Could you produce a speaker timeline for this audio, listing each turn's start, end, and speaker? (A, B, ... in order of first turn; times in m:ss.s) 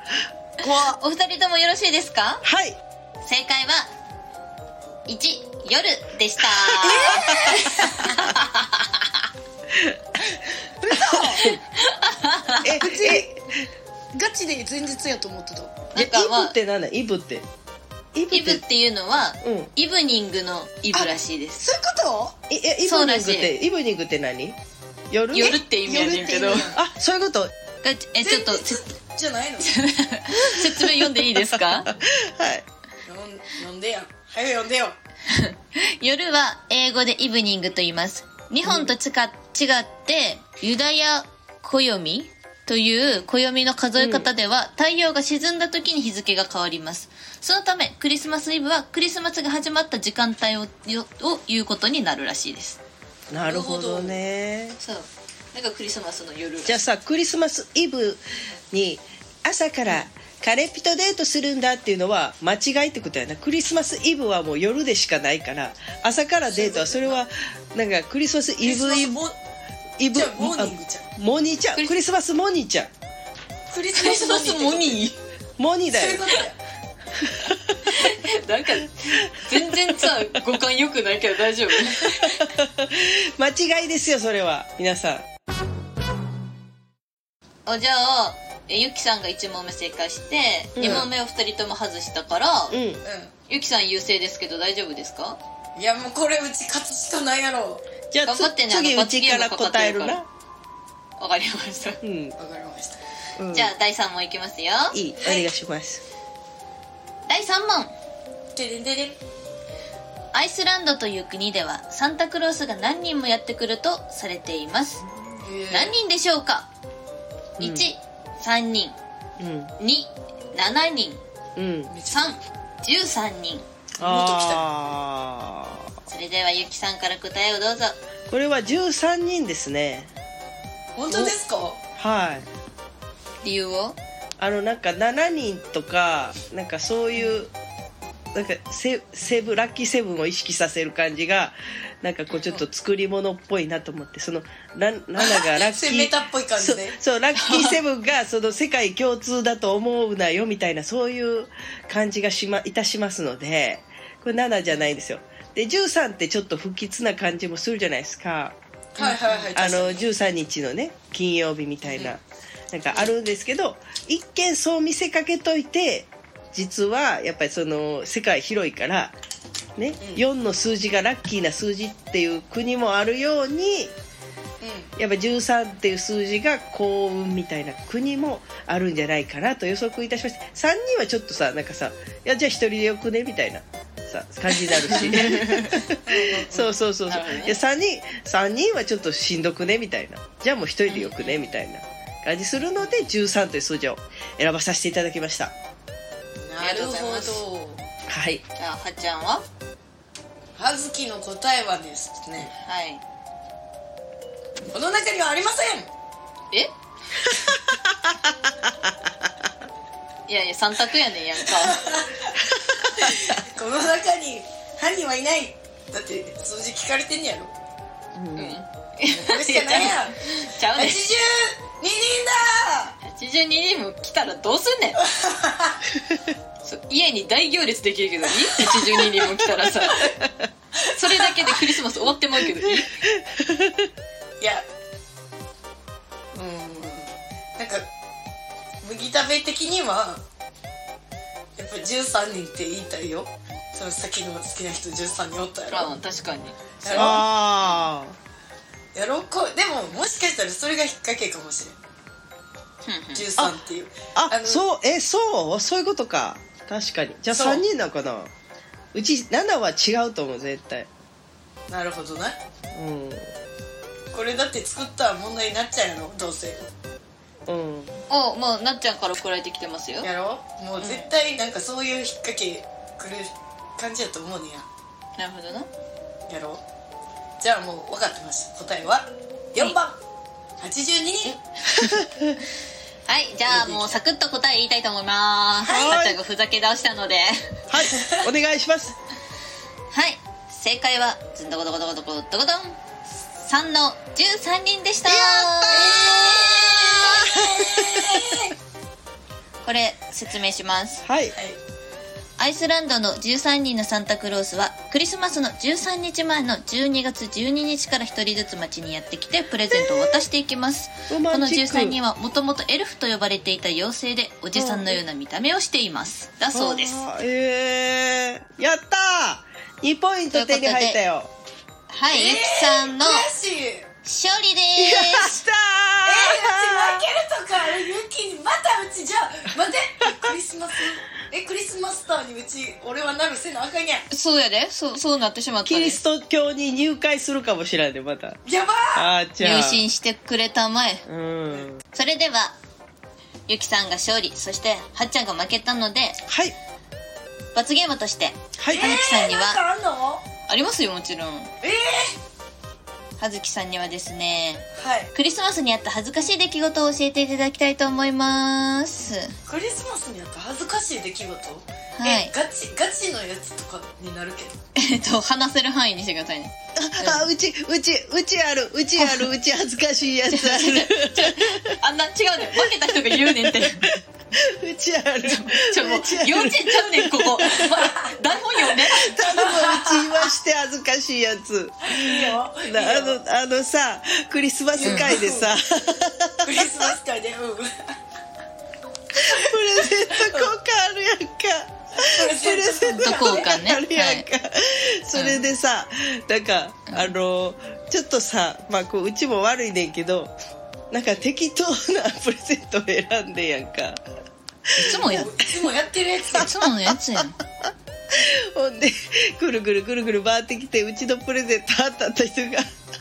0:00.6-0:01.0 A
0:01.0-0:02.4 B
0:02.4-0:02.8 C
0:03.2-0:03.9 B
0:05.1-0:09.0 B
0:06.8-0:08.2 A
0:09.7-0:10.0 C
0:10.8-0:11.5 A
0:10.9-0:11.6 C
0:11.4-0:12.7 B
0:12.6-0:13.4 C
0:12.8-0:13.3 A
0:14.1-0:15.8 A
0:15.9-0:16.5 B
0:15.9-0:17.4 C
0:18.1-0:18.6 C
0:18.3-0:21.6 B
0:19.4-0:19.7 C
0:20.9-0:22.4 A
0:22.5-0:24.6 C
0:22.8-0:23.5 B
0:25.1-0:27.5 C
0:25.3-0:26.7 B
0:25.9-0:26.8 A
0:27.8-0:28.8 B
0:28.2-0:29.8 A
0:29.6-0:31.9 B
0:30.3-0:32.6 C
0:33.0-0:35.0 A
0:35.3-0:52.8 B
0:38.6-0:38.9 C
0:44.0-0:44.3 C
0:53.3-0:54.8 C
0:53.4-0:54.2 A
0:54.8-0:56.8 B
0:56.6-1:09.2 C
1:06.5-1:07.2 A
1:08.6-1:09.4 A
1:10.0-1:12.9 C
1:10.1-1:11.0 A
1:13.7-1:15.0 A
1:13.9-1:15.2 B
1:15.6-1:16.3 C
1:15.9-1:16.6 A
1:17.1-1:17.9 C
1:17.8-1:22.4 B
1:19.5-1:20.1 C
1:21.8-1:25.2 C
1:27.6-1:32.8 B
1:30.8-1:31.1 C
1:32.7-1:33.0 C
1:33.0-1:33.3 A
1:33.5-1:35.4 B
1:35.8-1:37.8 A
1:38.1-1:40.3 C
1:38.2-1:40.2 B
1:41.2-1:42.0 B
1:42.0-1:42.3 C
1:42.4-1:43.0 A
1:43.4-1:43.7 C
1:43.5-1:45.0 B
1:44.9-1:46.0 C
1:45.2-1:45.5 A
1:47.3-1:47.9 B
1:48.5-1:49.2 A
1:50.3-1:55.0 B
1:55.4-1:55.9 A
1:55.7-1:56.7 B
1:57.6-1:57.9 C
1:57.6-1:59.0 B
1:59.4-1:59.7 C
1:59.8-2:01.2 B
2:01.6-2:01.9 C
2:01.9-2:02.4 A
2:02.1-2:03.6 B
2:04.0-2:04.6 A
2:04.0-2:05.9 C
2:06.1-2:08.0 B
2:08.3-2:10.1 C
2:11.0-2:11.8 A
2:12.0-2:12.5 C
2:13.4-2:14.0 B
2:14.4-2:17.5 C
2:18.3-2:38.6 C
2:25.2-2:27.0 A
2:27.3-2:27.8 B
2:39.0-2:40.1 A
2:39.0-2:39.5 B
2:39.5-2:49.1 C
2:41.9-2:42.1 A
2:49.8-2:53.9 C
2:54.6-2:54.9 A
2:55.0-3:15.5 C
3:04.9-3:05.8 B
3:06.0-3:06.7 A
3:07.1-3:07.6 B
3:10.9-3:11.4 B
3:16.4-3:17.8 A
3:16.6-3:17.4 B
3:18.1-3:18.4 C
3:18.6-3:19.4 B
3:20.6-3:22.5 A
3:22.6-3:23.0 B
3:24.7-3:25.9 A
3:27.7-3:29.3 C
3:30.3-3:31.8 B
3:31.6-3:32.4 A
3:32.6-3:33.3 C
3:32.9-3:37.5 A
3:38.1-3:38.6 C
3:38.4-3:41.0 B
3:39.1-3:40.2 A
3:40.7-3:43.0 A
3:43.0-3:45.0 B
3:45.0-3:45.8 A
3:46.6-3:50.1 B
3:48.6-3:49.0 A
3:50.8-3:51.6 A
3:50.9-3:53.0 B
3:53.0-3:53.9 C
3:54.4-3:54.6 A
3:56.3-3:57.8 A
3:58.8-4:00.2 A
4:01.6-4:05.9 A
4:05.7-4:07.2 B
4:06.8-4:07.2 A
4:06.9-4:08.2 C
4:08.9-4:11.8 A
4:12.8-4:13.3 B
4:13.1-4:14.6 A
4:14.1-4:18.3 C
4:17.3-4:17.6 A
4:18.9-4:20.9 C
4:21.7-4:22.4 A
4:22.7-4:23.3 C
4:24.1-4:26.7 A
4:27.5-4:28.0 C
4:28.1-4:30.1 B
4:30.0-4:34.6 A
4:30.8-4:31.1 B
4:35.2-4:35.7 B
4:36.3-4:36.6 A
4:37.4-4:40.0 A
4:40.6-4:41.4 A
4:41.8-4:42.4 C
4:43.1-4:47.6 B
4:43.5-4:44.0 A
4:45.6-4:46.2 C
4:47.7-4:48.9 C
4:47.8-4:48.3 A
4:49.9-4:52.8 B
4:53.4-4:56.0 B
4:55.0-4:56.3 C
4:55.7-4:58.5 A
4:57.0-4:58.3 C
4:59.6-5:01.0 B
5:01.0-5:01.4 C
5:02.4-5:17.0 B
5:09.7-5:10.1 C
5:11.1-5:12.0 C
5:14.5-5:15.0 C
5:16.5-5:21.3 C
5:20.3-5:21.0 B
5:21.9-5:23.3 B
5:22.1-5:23.9 A
5:24.0-5:25.4 B
5:24.8-5:27.0 C
5:26.0-5:34.1 A
5:34.1-5:36.0 B
5:35.6-5:38.4 C
5:38.4-5:39.1 A
5:38.9-5:39.8 C
5:39.4-5:41.0 B
5:41.0-5:41.8 C
5:41.9-5:42.6 B
5:43.5-5:46.2 B
5:46.2-5:46.6 C
5:47.5-5:49.6 B
5:48.6-5:48.9 C
5:48.7-5:50.2 A
5:50.5-5:51.5 B
5:51.6-5:52.1 A
5:53.2-5:59.3 B
5:54.8-5:55.1 A
5:59.4-6:04.6 A
6:01.9-6:02.3 B
6:04.8-6:07.3 B
6:06.8-6:11.8 C
6:09.0-6:09.3 B
6:10.3-6:13.9 B
6:12.5-6:17.9 C
6:15.2-6:19.2 B
6:18.6-6:26.9 C
6:19.2-6:20.3 A
6:21.9-6:23.2 A
6:24.7-6:25.5 A
6:24.8-6:25.1 B
6:26.4-6:28.0 A
6:29.1-6:40.3 C
6:30.1-6:30.5 A
6:32.0-6:33.6 A
6:32.9-6:34.2 B
6:35.1-6:35.4 B
6:40.9-6:44.0 C
6:44.7-6:45.2 C
6:44.8-6:45.3 B
6:44.9-6:46.5 A
6:46.3-6:47.4 B
6:46.4-6:52.7 C